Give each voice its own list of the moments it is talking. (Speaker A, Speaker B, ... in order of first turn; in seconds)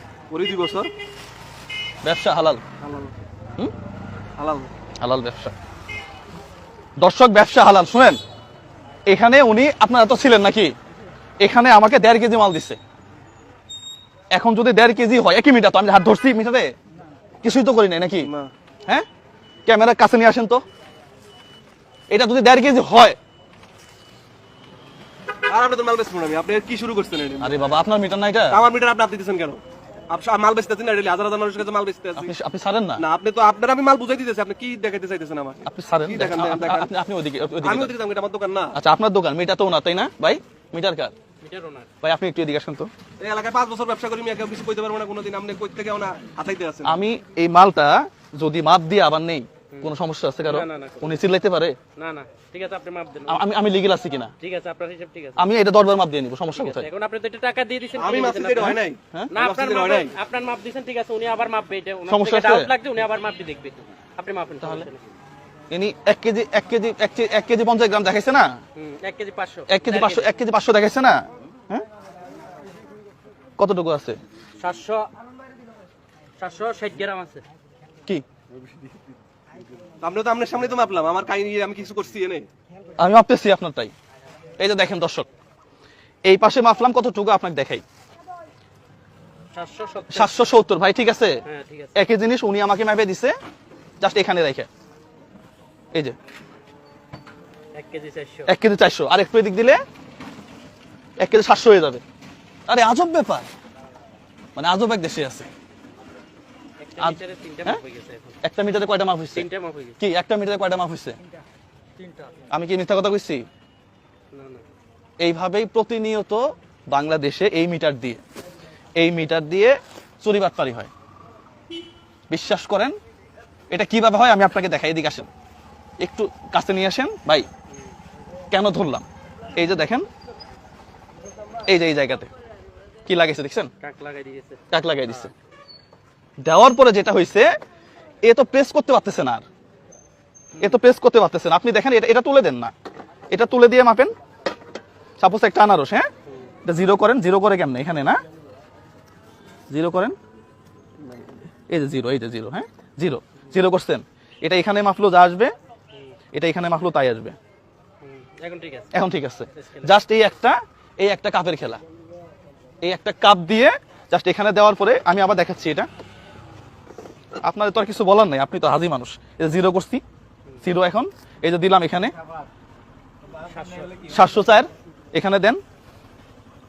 Speaker A: 0.3-0.9, 2.8-3.1, 4.4-4.7, 18.2-18.5, 25.5-27.6, 28.5-32.3, 33.0-36.9, 37.6-38.8, 43.2-47.0, 58.0-60.1, 80.0-82.5
Speaker B: 2.0-2.6, 5.0-5.5, 7.0-8.2, 9.1-10.7, 11.4-12.8, 14.3-16.7, 17.4-18.3, 19.7-20.6, 22.1-23.2, 27.4-28.6, 32.2-33.0, 35.6-37.9, 38.7-41.1, 42.0-42.9, 46.9-51.8, 53.3-54.3, 55.4-56.9, 62.1-62.7, 64.6-64.9, 65.7-68.5, 69.7-71.8, 73.6-74.2, 83.0-83.9, 84.6-85.3, 86.2-87.8, 90.1-91.3, 91.9-93.3, 94.0-94.7, 98.5-99.8, 101.2-102.0, 102.7-103.5, 104.5-105.5, 107.0-107.8, 108.4-109.5, 110.0-111.2, 112.5-113.4, 115.2-118.2, 119.0-120.9, 122.3-122.9, 123.7-125.3, 126.0-127.5, 128.5-129.0, 129.6-130.1, 131.7-132.3, 133.1-133.7, 134.7-135.3, 136.4-137.5, 138.2-139.4, 140.6-142.7, 143.3-144.1, 145.2-146.1, 146.6-148.2, 149.7-150.1, 151.7-155.5, 156.3-157.4, 158.9-161.8, 162.8-165.9, 167.4-170.0, 170.6-172.1, 174.1-175.6
Speaker C: 41.4-41.9, 49.7-51.3, 52.0-53.4, 54.4-55.4, 56.5-58.8, 59.3-65.0, 68.8-70.3, 74.6-75.1, 76.4-77.4, 89.5-90.4, 91.4-92.0, 97.7-98.5, 106.8-108.4, 109.3-110.0, 114.3-114.6, 133.8-135.3, 140.5-140.8, 158.0-158.9, 159.5-159.9, 173.4-174.1